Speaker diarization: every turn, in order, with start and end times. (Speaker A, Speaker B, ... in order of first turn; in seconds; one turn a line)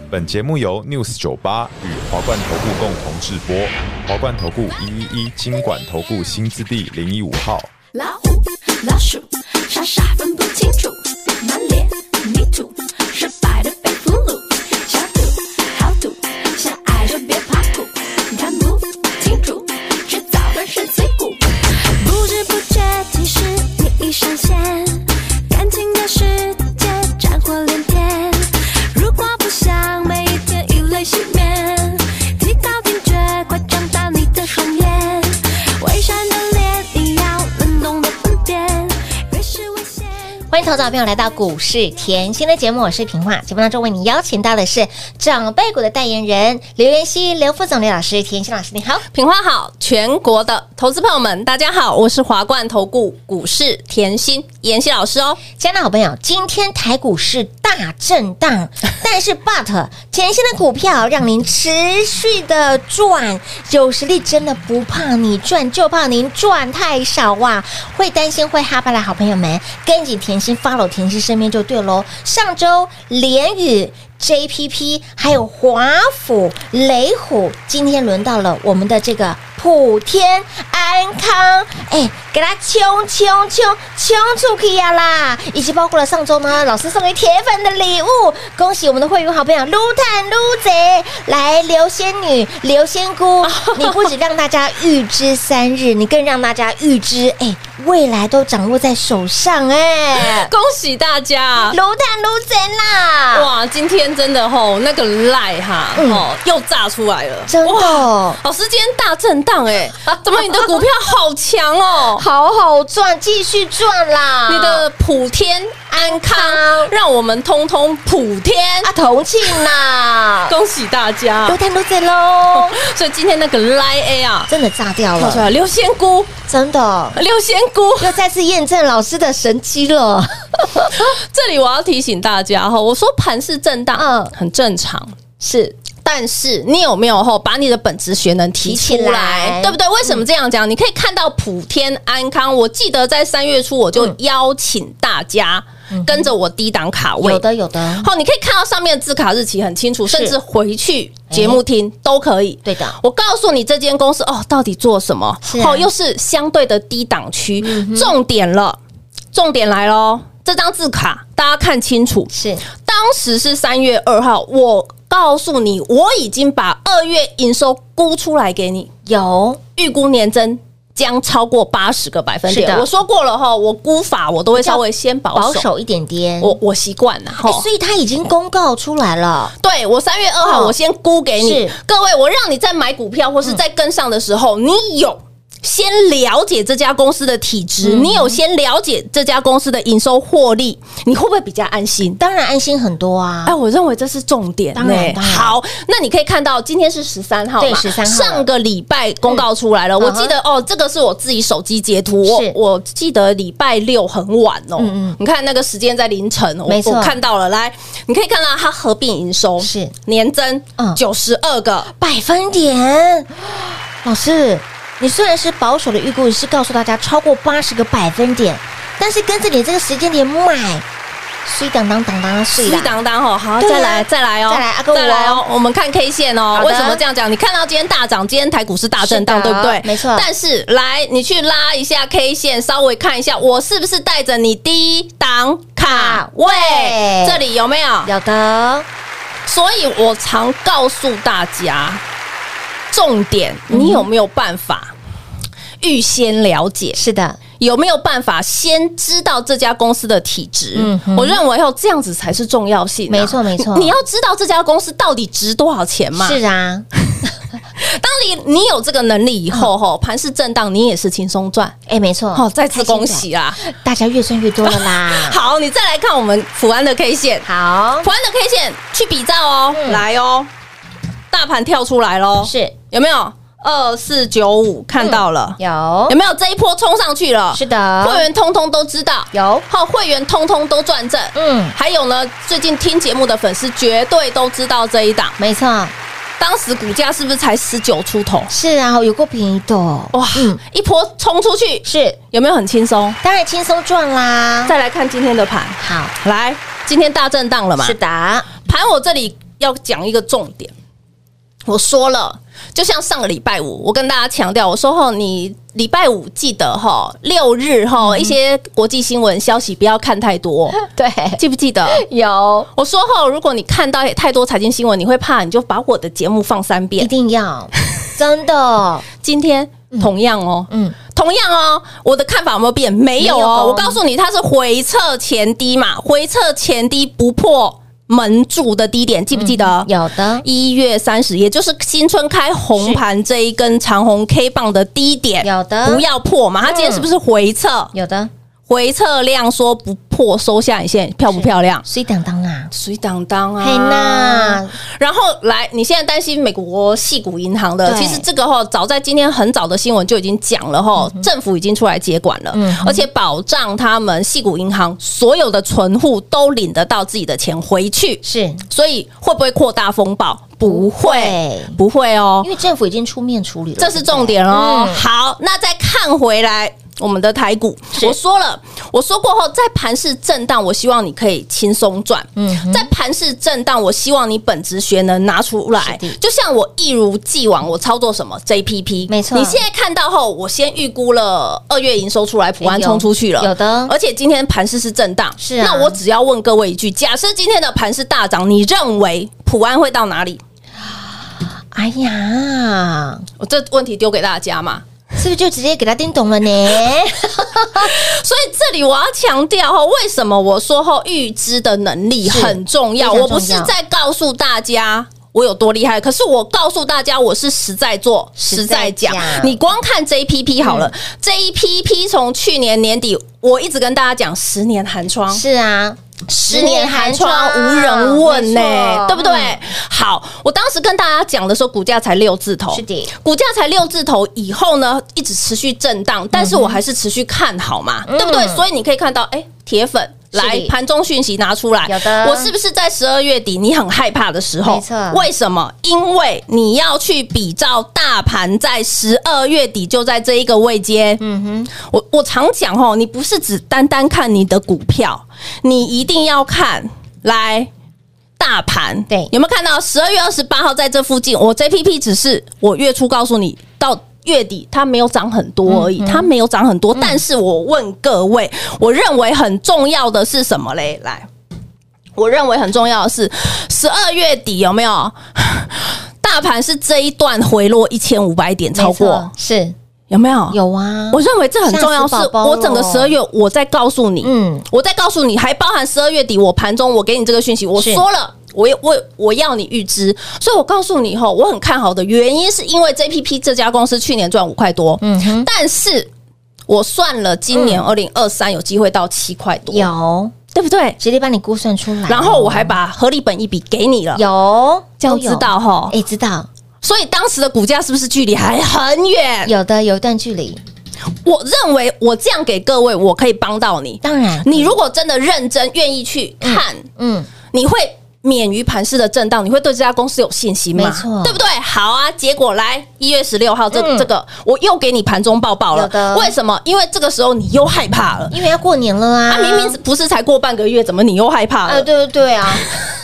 Speaker A: 0.1-7.7
Speaker B: 7.9-40.1
Speaker C: 40.5-49.0
Speaker D: 49.1-55.4
Speaker C: 55.5-100.5
Speaker D: 93.4-94.1
Speaker D: 100.1-101.8
Speaker C: 101.6-103.5
Speaker D: 103.3-112.2
Speaker C: 106.0-106.2
Speaker C: 107.5-108.4
Speaker C: 110.1-110.8
Speaker C: 112.2-114.8
Speaker D: 114.5-118.9
Speaker C: 115.9-116.9
Speaker C: 118.8-120.5
Speaker D: 120.5-121.6
Speaker C: 121.5-122.8
Speaker D: 122.5-124.5
Speaker C: 124.5-125.5
Speaker D: 125.2-126.3
Speaker C: 126.5-127.2
Speaker D: 127.1-128.2
Speaker C: 128.0-131.1
Speaker D: 130.9-135.1
Speaker C: 134.0-134.3
Speaker C: 135.4-135.7
Speaker D: 136.0-147.4
Speaker C: 138.6-140.2
Speaker C: 145.9-146.3
Speaker C: 147.2-148.1
Speaker D: 148.0-158.8
Speaker C: 150.1-150.4
Speaker C: 151.3-151.6
Speaker C: 152.7-153.0
Speaker C: 155.4-155.9
Speaker C: 157.6-158.2
Speaker D: 159.3-162.3
Speaker C: 162.3-162.6
Speaker D: 162.8-168.9
Speaker C: 169.1-169.6
Speaker D: 169.8-175.7
Speaker C: 172.5-172.9
Speaker C: 174.6-174.8
Speaker C: 175.3-176.6
Speaker D: 176.4-177.7
Speaker C: 177.3-179.5
Speaker D: 179.6-192.2
Speaker C: 180.4-180.8
Speaker C: 181.4-181.8
Speaker C: 187.8-188.4
Speaker C: 192.2-193.6
Speaker D: 193.5-211.9
Speaker C: 194.8-195.6
Speaker C: 197.6-198.5
Speaker C: 200.0-200.4
Speaker C: 202.2-202.6
Speaker C: 204.8-205.2
Speaker C: 206.7-207.2
Speaker C: 209.6-209.9
Speaker C: 211.9-220.8
Speaker C: 221.4-223.0
Speaker D: 222.6-238.1
Speaker C: 223.6-225.4
Speaker C: 226.5-227.0
Speaker C: 229.0-230.3
Speaker C: 235.8-237.4
Speaker C: 238.1-238.9
Speaker D: 239.5-242.0
Speaker D: 242.9-244.9
Speaker C: 243.7-244.1
Speaker D: 245.8-247.0
Speaker C: 246.9-247.4
Speaker D: 247.6-256.4
Speaker C: 250.8-251.4
Speaker C: 253.1-253.9
Speaker C: 256.2-256.9
Speaker D: 257.8-261.8
Speaker C: 261.9-265.4
Speaker D: 262.4-263.6
Speaker D: 264.6-267.5
Speaker C: 267.4-268.1
Speaker D: 268.0-270.5
Speaker C: 269.7-270.0
Speaker D: 271.3-285.4
Speaker C: 272.4-272.8
Speaker C: 275.0-276.2
Speaker C: 277.5-278.3
Speaker C: 279.3-279.7
Speaker C: 281.4-281.8
Speaker C: 285.4-285.9
Speaker D: 286.4-288.5
Speaker C: 288.5-290.6
Speaker D: 290.1-293.2
Speaker C: 291.9-292.2
Speaker C: 293.2-294.8
Speaker D: 294.7-298.0
Speaker C: 295.8-296.1
Speaker C: 297.8-298.5
Speaker D: 298.6-300.7
Speaker D: 301.7-310.8
Speaker C: 308.0-308.4
Speaker C: 310.8-312.7
Speaker D: 311.4-312.0
Speaker D: 312.8-317.1
Speaker C: 317.0-319.1
Speaker D: 319.2-329.9
Speaker C: 320.7-321.0
Speaker C: 323.2-324.0
Speaker C: 329.3-330.4
Speaker D: 330.4-337.9
Speaker C: 332.8-333.0
Speaker C: 335.4-336.0
Speaker C: 336.6-337.1
Speaker C: 337.9-338.3
Speaker D: 338.7-341.9
Speaker C: 341.3-342.7
Speaker D: 342.7-362.5
Speaker C: 343.6-344.8
Speaker C: 347.8-348.3
Speaker C: 351.0-351.3
Speaker C: 352.5-353.1
Speaker C: 358.2-358.6
Speaker C: 360.6-361.8
Speaker C: 362.4-365.0
Speaker D: 363.8-390.4
Speaker C: 372.4-372.9
Speaker C: 375.8-376.2
Speaker C: 379.1-379.6
Speaker C: 382.6-383.9
Speaker C: 385.4-386.0
Speaker C: 391.7-393.3
Speaker D: 393.4-394.9
Speaker C: 395.2-397.9
Speaker D: 397.8-415.4
Speaker C: 402.2-403.7
Speaker C: 408.4-409.6
Speaker C: 410.6-410.9
Speaker C: 415.3-419.6
Speaker D: 416.3-441.2
Speaker C: 422.7-423.1
Speaker C: 426.3-426.8
Speaker C: 428.1-428.6
Speaker C: 430.3-430.7
Speaker C: 431.9-432.5
Speaker C: 434.6-435.3
Speaker C: 441.2-441.7
Speaker D: 441.8-447.7
Speaker D: 448.4-461.3
Speaker C: 455.7-456.3
Speaker D: 462.2-469.3
Speaker C: 468.7-469.8
Speaker D: 470.1-470.6
Speaker C: 470.5-473.1
Speaker D: 471.1-486.1
Speaker C: 474.2-474.7
Speaker C: 477.8-478.0
Speaker C: 485.0-485.5
Speaker D: 486.7-489.9
Speaker C: 487.5-487.8
Speaker C: 489.7-490.3
Speaker D: 490.5-491.0
Speaker C: 491.0-492.8
Speaker D: 492.1-494.2
Speaker C: 494.1-496.5
Speaker D: 495.0-495.9
Speaker D: 496.8-499.5
Speaker C: 499.4-500.6
Speaker D: 501.2-506.9
Speaker C: 504.0-504.8
Speaker C: 506.4-507.3
Speaker D: 507.5-518.4
Speaker C: 510.8-511.4
Speaker C: 513.7-514.1
Speaker C: 515.7-516.3
Speaker C: 518.3-519.8
Speaker D: 519.3-521.9
Speaker C: 521.7-522.7